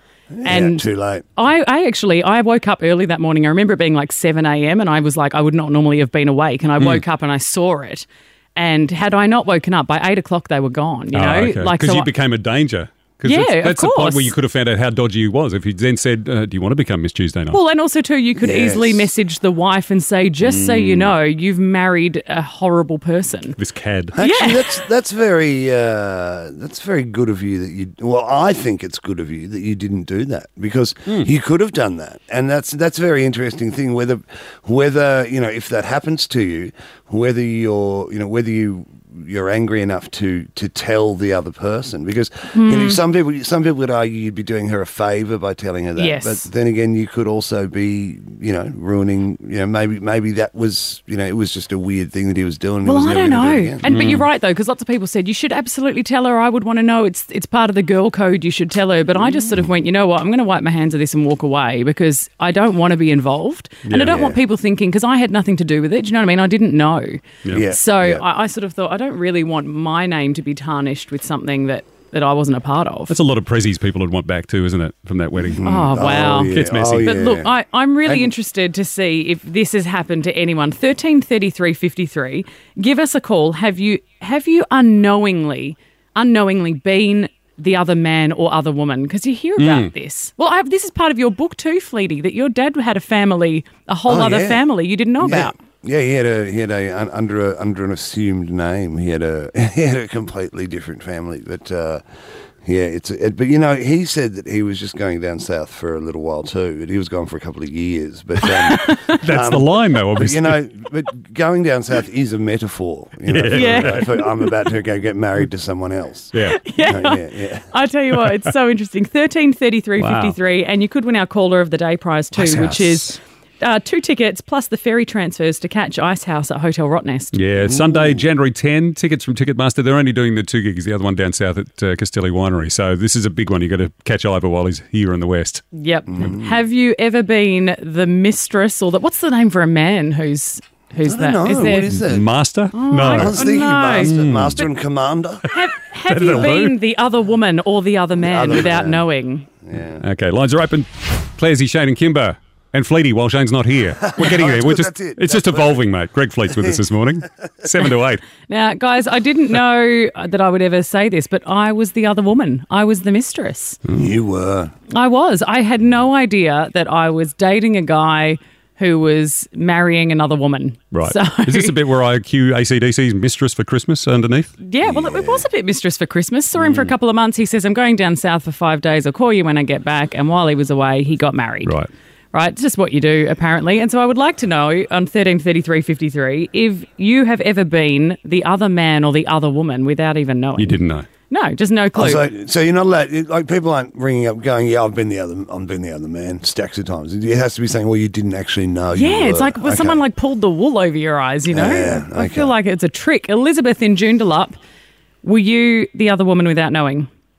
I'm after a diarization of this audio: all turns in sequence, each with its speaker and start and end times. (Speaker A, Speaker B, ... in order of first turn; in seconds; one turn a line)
Speaker A: 0.3-1.3
Speaker B: 0.5-12.1
Speaker C: 6.8-7.0
Speaker C: 11.1-17.6
Speaker B: 13.3-14.3
Speaker B: 17.5-23.6
Speaker A: 18.4-19.1
Speaker C: 20.4-21.1
Speaker C: 23.6-24.1
Speaker A: 24.1-53.9
Speaker B: 24.3-24.5
Speaker B: 42.5-43.0
Speaker B: 46.0-46.4
Speaker B: 52.9-73.1
Speaker C: 53.8-54.3
Speaker A: 59.2-59.7
Speaker C: 63.8-64.3
Speaker A: 63.9-64.4
Speaker A: 67.5-68.2
Speaker C: 73.1-77.2
Speaker A: 75.3-78.3
Speaker B: 75.7-76.5
Speaker B: 77.1-95.5
Speaker C: 89.6-89.9
Speaker A: 94.1-94.7
Speaker A: 95.2-102.0
Speaker A: 102.6-117.7
Speaker C: 108.7-110.6
Speaker C: 113.3-114.3
Speaker B: 113.6-113.9
Speaker C: 116.3-116.6
Speaker B: 116.5-117.2
Speaker B: 117.7-127.3
Speaker C: 118.1-118.5
Speaker C: 120.0-120.4
Speaker C: 122.3-123.2
Speaker C: 127.3-135.6
Speaker A: 127.7-128.2
Speaker B: 135.7-141.9
Speaker A: 136.1-136.6
Speaker A: 141.1-142.3
Speaker C: 141.8-144.7
Speaker B: 142.7-144.1
Speaker A: 143.0-145.5
Speaker C: 145.5-146.8
Speaker B: 145.5-149.4
Speaker A: 148.2-150.1
Speaker C: 150.0-158.2
Speaker A: 154.0-155.8
Speaker A: 156.5-156.8
Speaker B: 158.5-163.8
Speaker A: 163.9-164.7
Speaker B: 164.9-171.7
Speaker C: 170.9-174.5
Speaker B: 174.6-181.8
Speaker A: 174.8-175.5
Speaker C: 176.6-176.9
Speaker C: 181.6-181.9
Speaker B: 182.3-192.2
Speaker C: 190.6-191.1
Speaker A: 191.9-200.0
Speaker B: 199.0-204.6
Speaker A: 201.5-202.5
Speaker B: 205.2-207.1